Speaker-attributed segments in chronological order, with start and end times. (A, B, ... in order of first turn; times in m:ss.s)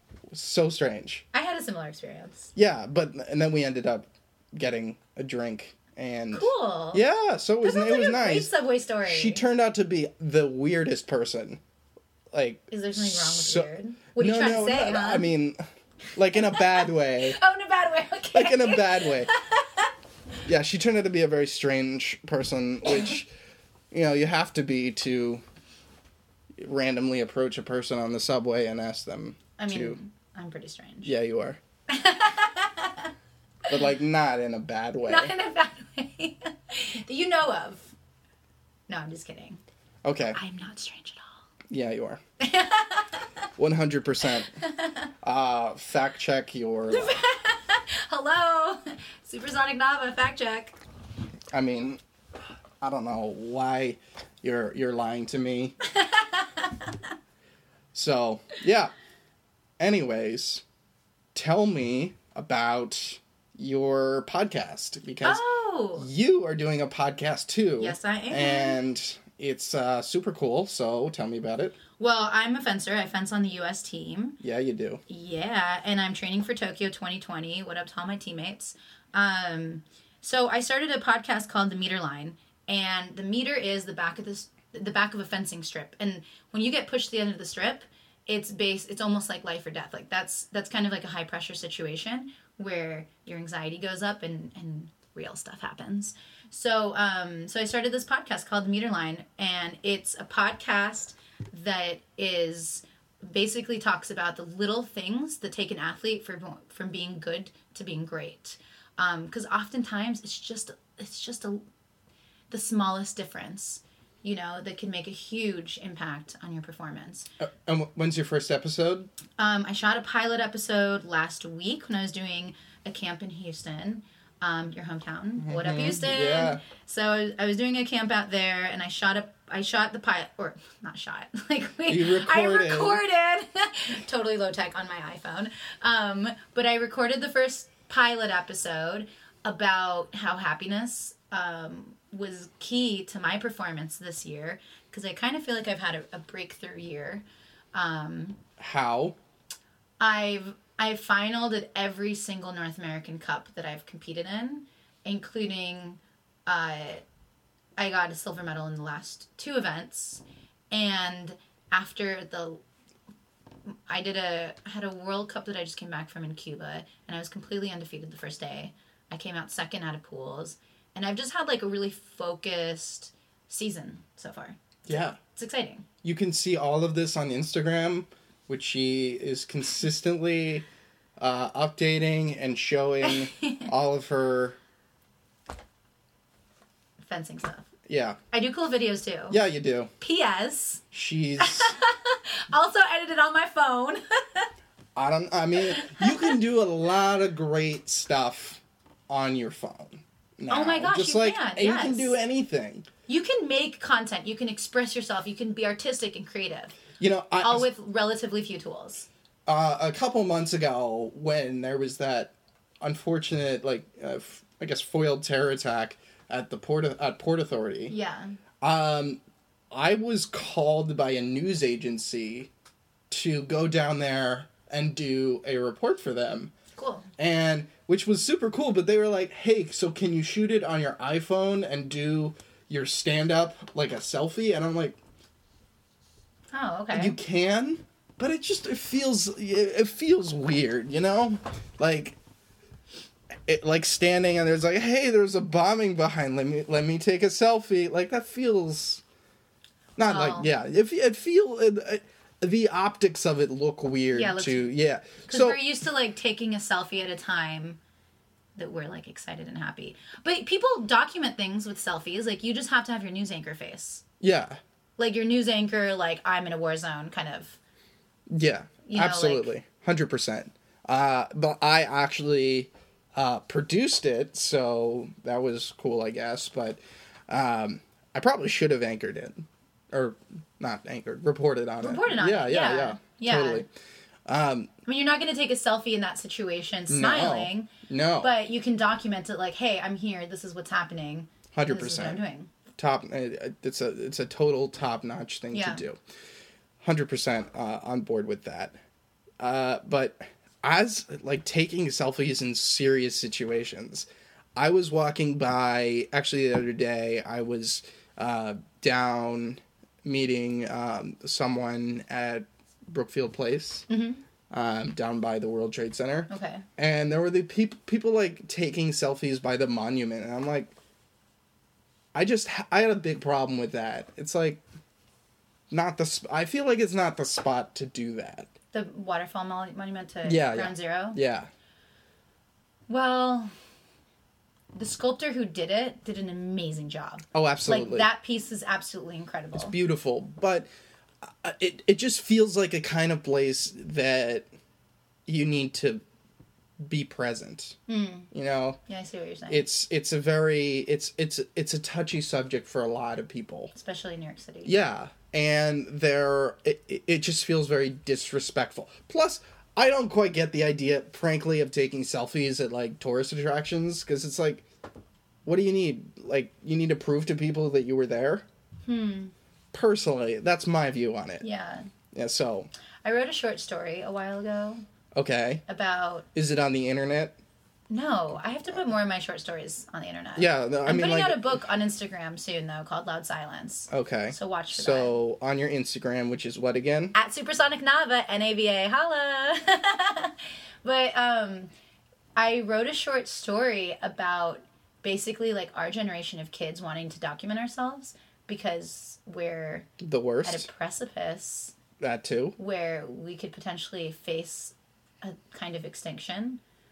0:00.3-0:01.2 A
0:01.3-0:02.5 B
0:02.5-0:08.5 A
0:06.3-0:07.0 B
0:07.6-0:09.4 B
0:09.0-0:11.6 A
0:12.3-0:15.6 A
0:12.7-0:15.3 B
0:16.1-0:17.4 A
0:16.3-0:19.9 B
0:18.3-0:19.3 A
0:20.4-0:23.3 A
0:23.9-0:25.4 A
0:26.6-0:30.0 A
0:29.6-0:31.1 B
0:31.0-0:31.6 A
0:31.9-0:33.1 B
0:33.7-0:35.3 A
0:35.1-0:37.9 B
0:38.9-0:39.6 B
0:40.0-0:40.4 A
0:40.3-0:41.4 B
0:41.7-0:42.2 A
0:42.4-0:43.2 B
0:43.6-0:44.6 A
0:44.6-0:45.1 B
0:45.2-0:47.1 A
0:46.9-0:50.8 B
0:51.5-0:52.0 A
0:52.8-0:55.8 A
0:55.8-0:57.1 B
0:57.9-0:58.9 A
0:59.8-1:00.6 A
1:01.3-1:05.4 A
1:05.2-1:06.1 B
1:06.0-1:11.8 A
1:07.8-1:08.8 B
1:12.0-1:14.4 B
1:14.4-1:15.0 A
1:15.1-1:51.6 B
1:52.5-1:57.3 B
1:57.4-1:59.1 A
1:59.4-2:28.4 B
2:05.4-2:06.6 A
2:11.9-2:13.0 A
2:28.6-2:29.2 A
2:30.0-2:37.0 B
2:37.8-2:42.6 B
2:43.9-2:55.8 B
2:54.9-2:55.2 A
2:56.0-3:00.6 A
3:01.2-3:04.6 A
3:03.0-3:03.7 B
3:07.0-3:07.7 B
3:07.9-3:08.2 A
3:08.3-3:09.4 B
3:09.3-3:09.9 A
3:10.0-3:10.8 B
3:10.9-3:11.7 A
3:11.4-3:14.5 B
3:14.9-3:22.9 A
3:15.6-3:16.3 B
3:20.5-3:22.2 B
3:23.1-3:26.8 B
3:27.0-3:27.6 A
3:27.4-3:29.1 B
3:29.4-3:37.9 A
3:37.9-3:38.4 B
3:38.6-3:39.2 A
3:39.7-3:42.5 A
3:43.1-3:46.5 A
3:46.8-3:47.1 B
3:47.2-3:55.0 A
3:56.5-3:57.2 B
3:56.9-4:02.2 A
4:03.4-4:09.0 A
4:10.0-4:15.6 A
4:10.1-4:10.5 B
4:14.1-4:14.7 B
4:15.2-4:17.8 B
4:18.6-4:24.0 B
4:24.2-4:24.6 A
4:25.0-4:27.6 B
4:28.3-4:43.7 A
4:28.8-4:29.5 B
4:41.8-4:43.6 B
4:44.2-4:44.7 A
4:44.8-4:47.7 B
4:46.9-4:48.3 A
4:48.2-4:52.5 B
4:51.5-4:52.2 A
4:52.8-4:56.0 A
4:55.5-4:55.8 B
4:56.8-4:58.8 A
4:59.4-5:13.8 A
5:13.9-5:14.2 B
5:14.5-5:20.7 A
5:16.3-5:16.6 B
5:22.1-5:24.6 A
5:25.7-5:28.5 A
5:28.7-5:31.2 B
5:30.2-5:31.5 A
5:32.9-5:33.5 B
5:34.7-5:39.7 B
5:37.3-5:38.1 A
5:39.5-5:40.7 A
5:41.2-5:44.5 A
5:45.3-5:46.0 A
5:46.8-5:47.8 A
5:47.9-5:48.3 B
5:48.3-5:48.8 A
5:48.9-5:49.6 B
5:49.5-5:53.7 A
5:53.7-5:54.7 B
5:54.6-6:04.6 A
6:05.4-6:08.4 A
6:08.8-6:09.3 B
6:09.7-6:11.4 A
6:11.4-6:11.9 B
6:12.1-6:12.7 A
6:13.0-6:14.8 B
6:15.1-6:15.6 A
6:15.7-6:16.3 B
6:16.3-6:17.4 A
6:17.9-6:25.2 B
6:20.4-6:21.6 A
6:23.9-6:27.1 A
6:27.1-6:31.7 B
6:32.4-6:39.9 B
6:40.0-6:40.7 A
6:40.4-6:41.7 B
6:42.0-6:42.6 A
6:42.6-6:46.6 B